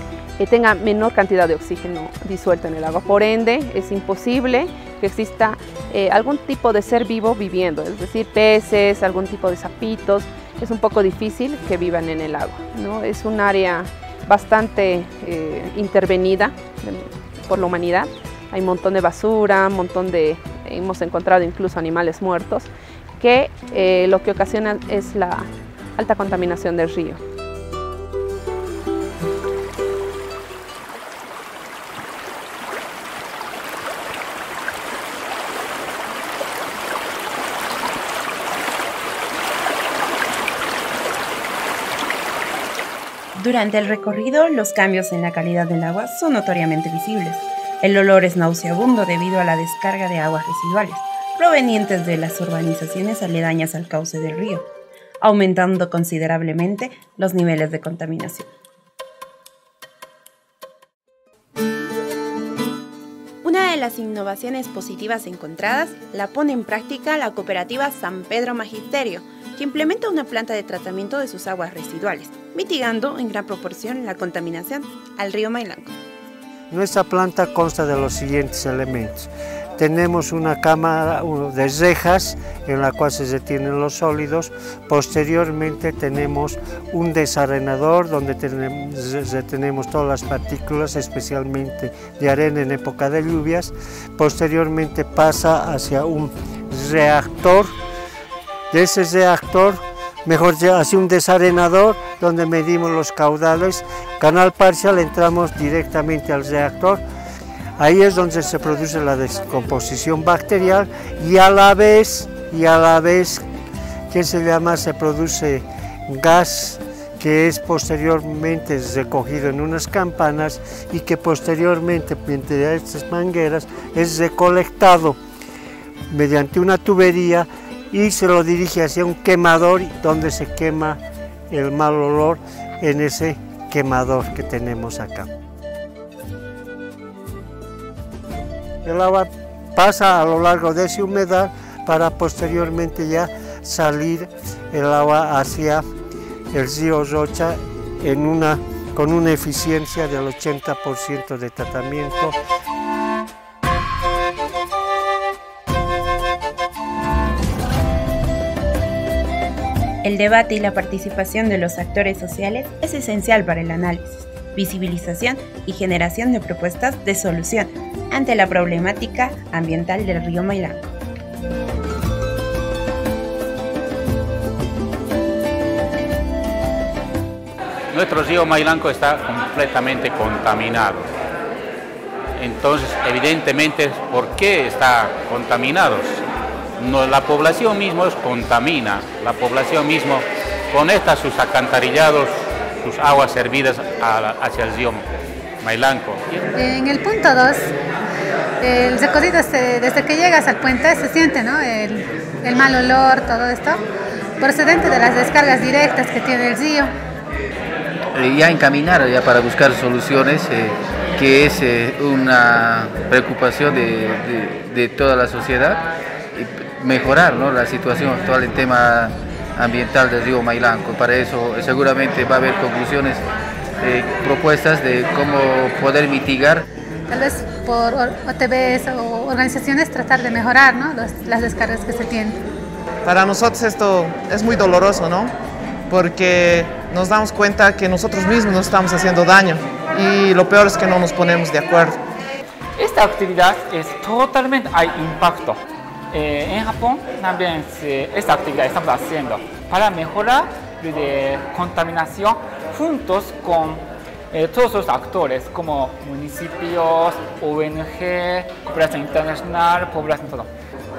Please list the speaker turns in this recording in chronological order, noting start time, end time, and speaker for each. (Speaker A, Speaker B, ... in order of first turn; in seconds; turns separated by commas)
Speaker A: 0.4-27.2, Speaker B: 43.4-54.7, Speaker B: 55.2-58.5, Speaker B: 63.4-76.0, Speaker C: 76.7-97.8, Speaker C: 98.7-107.0, Speaker C: 107.8-113.4, Speaker C: 114.1-125.2, Speaker C: 126.1-135.3, Speaker C: 138.8-145.8, Speaker C: 146.5-152.4, Speaker B: 160.0-170.9, Speaker D: 177.9-181.1, Speaker D: 182.4-186.2, Speaker D: 186.8-195.1, Speaker D: 195.6-196.3, Speaker E: 196.6-197.7, Speaker E: 198.6-203.8, Speaker E: 204.4-206.9, Speaker F: 208.2-210.6, Speaker F: 211.2-215.8, Speaker F: 216.4-219.0, Speaker F: 219.6-223.0, Speaker F: 223.8-226.2, Speaker E: 226.1-226.4, Speaker E: 227.1-232.4, Speaker G: 233.1-235.3, Speaker G: 235.9-242.0, Speaker H: 242.8-260.5